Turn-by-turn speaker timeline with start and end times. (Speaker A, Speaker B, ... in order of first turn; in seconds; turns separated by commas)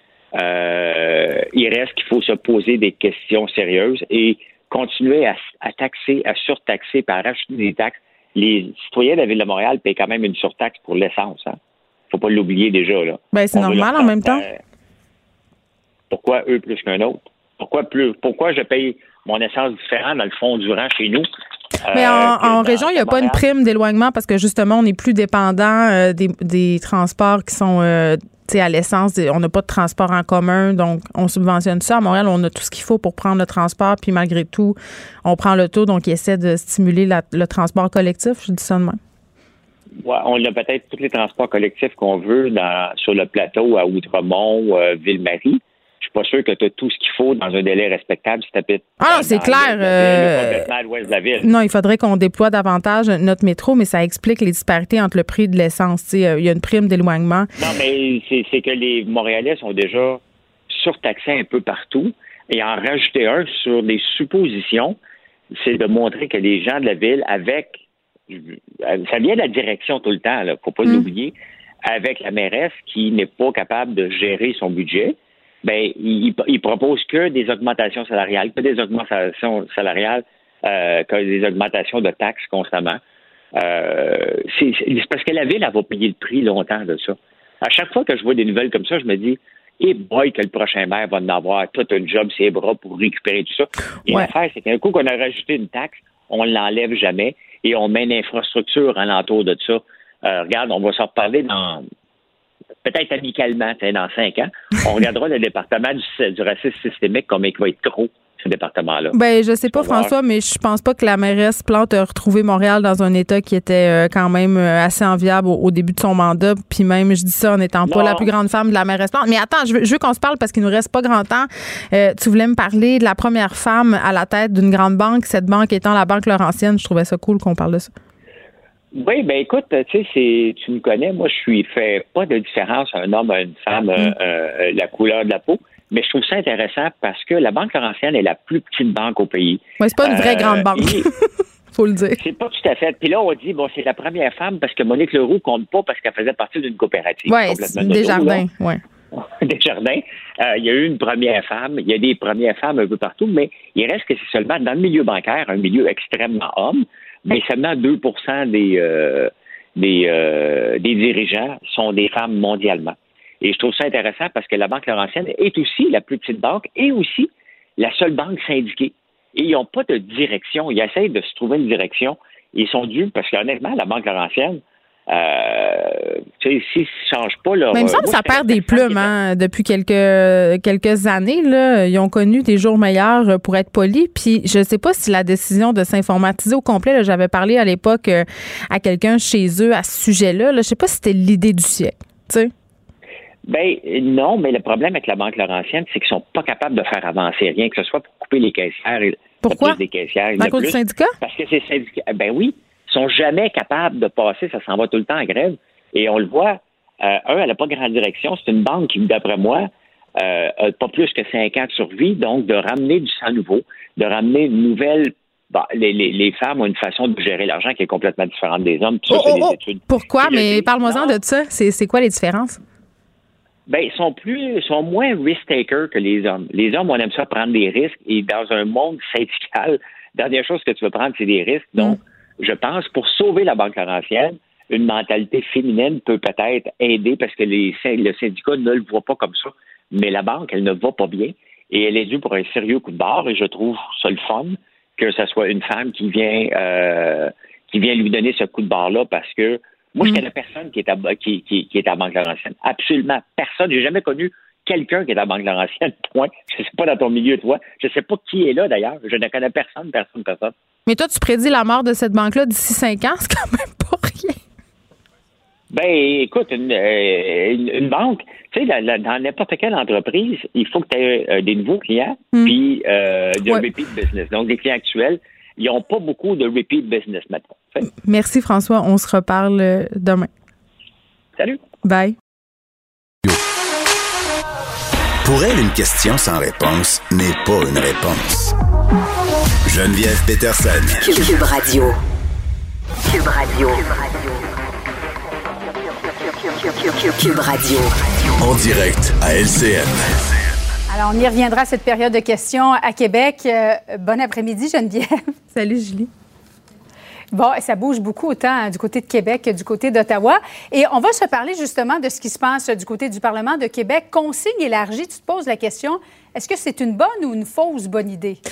Speaker A: 0.3-11.6, Speaker A: 12.1-14.5, Speaker B: 13.3-14.4, Speaker A: 16.1-21.3, Speaker A: 21.8-23.4, Speaker B: 21.9-39.0, Speaker A: 40.0-51.5, Speaker B: 49.0-50.7, Speaker B: 51.4-57.5, Speaker A: 57.6-65.0, Speaker A: 65.5-71.3, Speaker A: 71.9-83.0, Speaker A: 83.5-101.8, Speaker A: 102.8-110.1, Speaker B: 109.1-127.9, Speaker A: 117.8-118.3, Speaker A: 128.9-141.1, Speaker B: 139.8-141.1, Speaker B: 141.7-142.2, Speaker A: 142.2-148.4, Speaker B: 147.3-148.8, Speaker A: 149.2-179.1, Speaker B: 177.7-192.5, Speaker A: 193.4-221.2, Speaker B: 199.4-199.8, Speaker B: 200.4-201.2, Speaker B: 219.1-222.6, Speaker A: 223.7-260.5, Speaker B: 260.9-264.4, Speaker A: 265.7-277.8, Speaker B: 277.9-280.3, Speaker B: 281.8-282.1, Speaker C: 285.2-288.5, Speaker C: 289.7-291.0, Speaker D: 291.0-291.9, Speaker D: 293.0-294.4, Speaker D: 296.4-298.4, Speaker C: 298.4-300.2, Speaker E: 300.9-305.3, Speaker B: 305.5-306.1, Speaker E: 307.3-318.4